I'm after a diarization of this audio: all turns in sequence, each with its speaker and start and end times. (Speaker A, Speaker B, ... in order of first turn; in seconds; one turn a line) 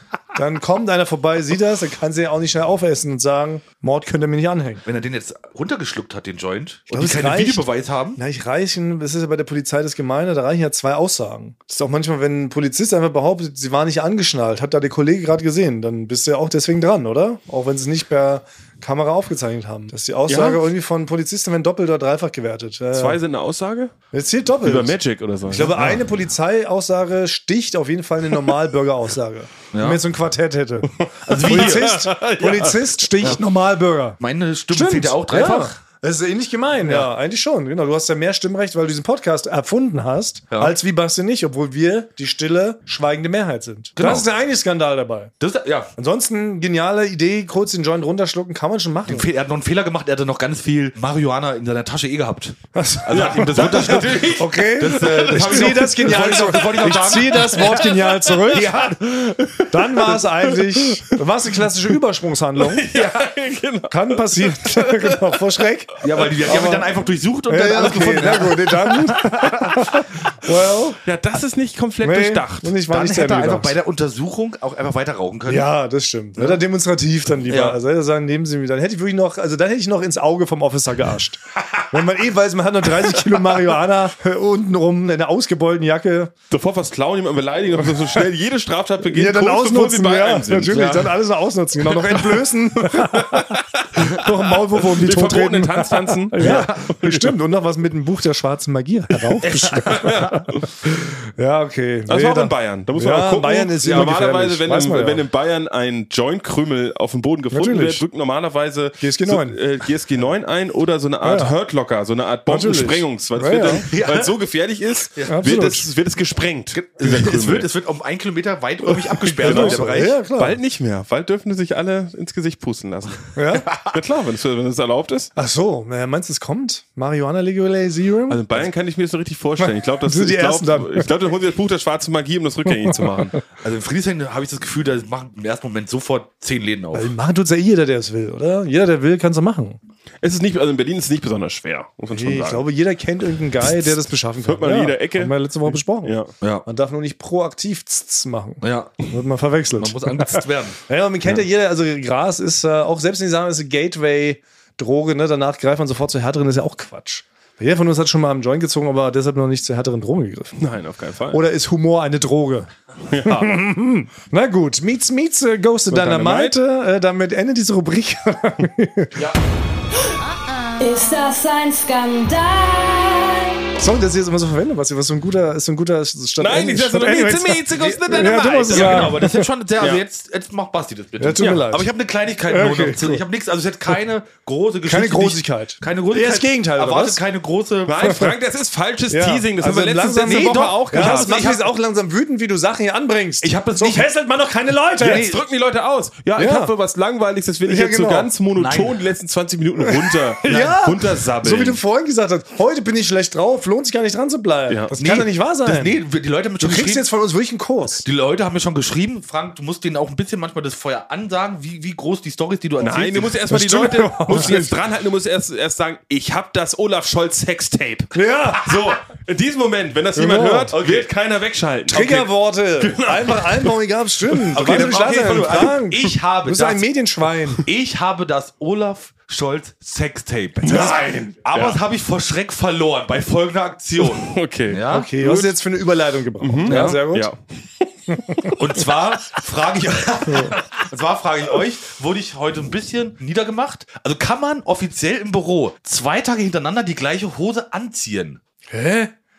Speaker A: 0.3-4.8
Speaker B: 4.8-8.2
Speaker A: 6.9-23.2
Speaker C: 20.3-20.6
Speaker C: 22.9-23.9
Speaker A: 24.1-34.2
Speaker C: 24.6-25.9
Speaker B: 25.6-26.0
Speaker B: 29.7-30.0
Speaker C: 31.0-33.1
Speaker B: 31.2-32.0
Speaker B: 34.2-35.7
Speaker A: 34.7-45.3
Speaker B: 44.0-44.3
Speaker B: 45.4-45.9
Speaker A: 46.0-49.3
Speaker B: 49.1-57.8
Speaker A: 52.7-58.8
Speaker C: 53.1-61.6
Speaker B: 58.5-59.1
Speaker A: 59.7-62.9
Speaker C: 62.6-65.5
Speaker A: 63.9-67.0
Speaker B: 66.0-69.0
Speaker A: 67.5-71.0
Speaker C: 69.2-70.0
Speaker C: 71.0-72.7
Speaker A: 72.0-73.7
Speaker B: 72.9-75.7
Speaker A: 75.5-86.3
Speaker B: 77.5-77.8
Speaker C: 86.5-91.1
Speaker A: 87.8-88.2
Speaker A: 89.0-105.2
Speaker C: 91.9-97.3
Speaker B: 96.4-96.8
Speaker C: 99.3-100.8
Speaker C: 102.1-117.7
Speaker A: 107.5-108.0
Speaker A: 109.0-109.6
Speaker A: 111.2-111.5
Speaker A: 112.5-113.8
Speaker B: 113.7-114.3
Speaker A: 115.3-115.9
Speaker B: 116.7-120.2
Speaker C: 118.9-125.3
Speaker A: 119.4-120.6
Speaker A: 123.3-123.7
Speaker A: 125.3-128.4
Speaker C: 128.3-133.4
Speaker A: 129.6-131.1
Speaker A: 132.7-133.3
Speaker B: 133.6-137.1
Speaker A: 136.9-139.8
Speaker C: 140.2-142.6
Speaker A: 142.1-160.6
Speaker C: 143.6-146.3
Speaker B: 146.4-146.7
Speaker B: 148.6-149.0
Speaker B: 149.8-150.8
Speaker C: 160.6-161.4
Speaker A: 161.3-162.7
Speaker C: 163.1-163.5
Speaker A: 163.2-169.2
Speaker C: 165.9-166.6
Speaker D: 170.8-173.6
Speaker A: 173.8-179.5
Speaker C: 176.4-179.2
Speaker B: 178.7-188.2
Speaker A: 181.2-181.9
Speaker A: 182.5-183.2
Speaker A: 184.8-187.2
Speaker C: 187.9-191.5
Speaker A: 188.0-188.3
Speaker A: 189.1-195.3
Speaker B: 190.2-191.7
Speaker B: 193.4-194.1
Speaker B: 195.0-195.4
Speaker C: 195.0-201.8
Speaker A: 196.3-196.7
Speaker A: 197.6-198.3
Speaker B: 198.5-199.0
Speaker A: 199.8-206.0
Speaker C: 204.7-204.9
Speaker B: 205.0-207.1
Speaker A: 206.6-208.0
Speaker B: 208.0-213.4
Speaker C: 212.8-223.7
Speaker A: 213.5-214.8
Speaker A: 218.1-218.7
Speaker A: 220.1-220.8
Speaker B: 220.7-221.1
Speaker A: 221.9-227.7
Speaker B: 224.5-226.9
Speaker B: 227.6-235.1
Speaker C: 230.6-231.8
Speaker C: 234.0-235.5
Speaker A: 234.9-237.3
Speaker C: 236.4-238.6
Speaker B: 236.7-237.0
Speaker A: 238.1-238.5
Speaker B: 238.6-248.4
Speaker A: 240.3-240.5
Speaker A: 248.7-249.1